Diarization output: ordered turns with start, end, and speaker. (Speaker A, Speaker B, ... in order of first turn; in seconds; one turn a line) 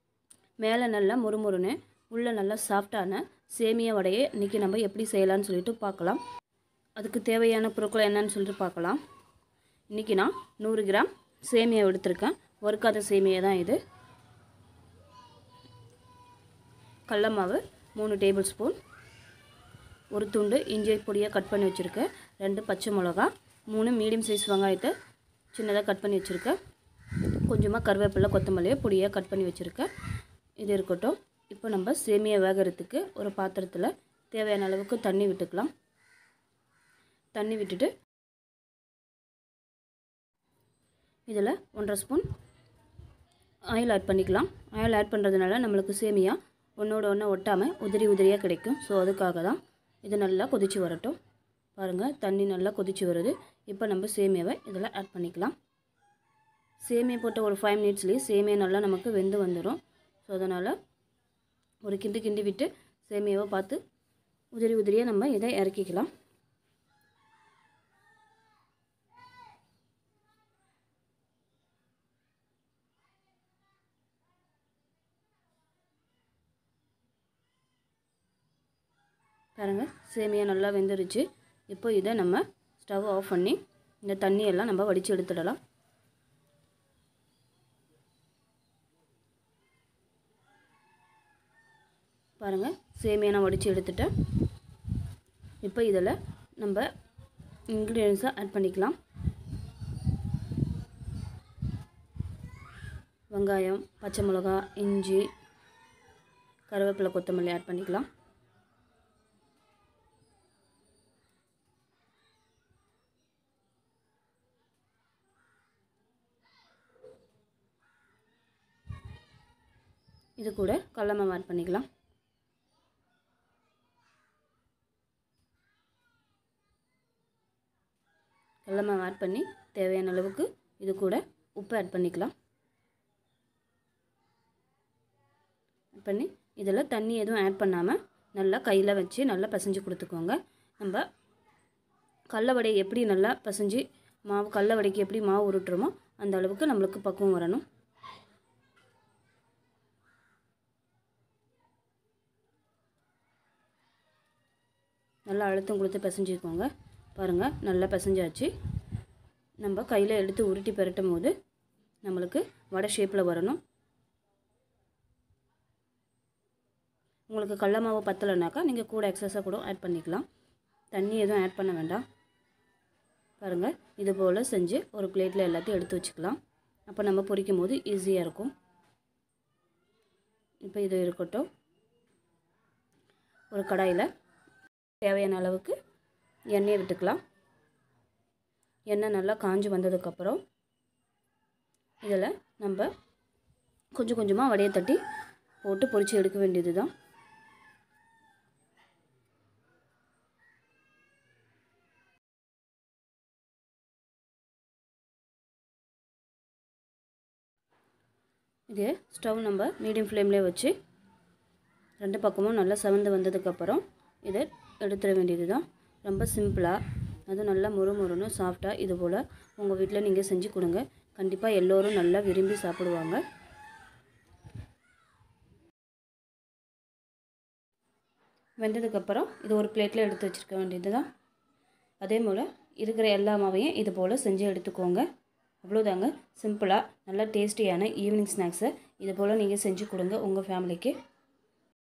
Speaker A: 0.6-6.2
Speaker A: 7.0-9.0
Speaker A: 9.9-13.8
Speaker A: 17.1-18.8
Speaker A: 20.1-24.9
Speaker A: 25.5-26.6
Speaker A: 27.4-29.9
Speaker A: 30.6-35.7
Speaker A: 37.4-37.9
Speaker A: 41.3-42.3
Speaker A: 43.7-51.2
Speaker A: 51.8-55.5
Speaker A: 56.8-60.8
Speaker A: 61.8-63.8
Speaker A: 64.5-66.1
Speaker A: 79.6-85.6
Speaker A: 92.4-94.1
Speaker A: 95.6-96.9
Speaker A: 97.7-99.0
Speaker A: 103.3-105.3
Speaker A: 106.7-108.1
Speaker A: 120.4-121.9
Speaker A: 128.7-132.3
Speaker A: 136.0-141.1
Speaker A: 142.3-147.6
Speaker A: 155.3-158.5
Speaker A: 159.6-161.3
Speaker A: 162.0-163.6
Speaker A: 167.3-170.3
Speaker A: 170.9-172.0
Speaker A: 173.4-178.5
Speaker A: 180.6-181.5
Speaker A: 183.5-184.1
Speaker A: 185.0-185.8
Speaker A: 186.5-187.2
Speaker A: 188.9-190.4
Speaker A: 192.0-192.9
Speaker A: 194.0-195.0
Speaker A: 195.6-196.9
Speaker A: 208.7-210.8
Speaker A: 212.0-223.2
Speaker A: 228.6-231.1
Speaker A: 232.0-235.1
Speaker A: 235.6-241.0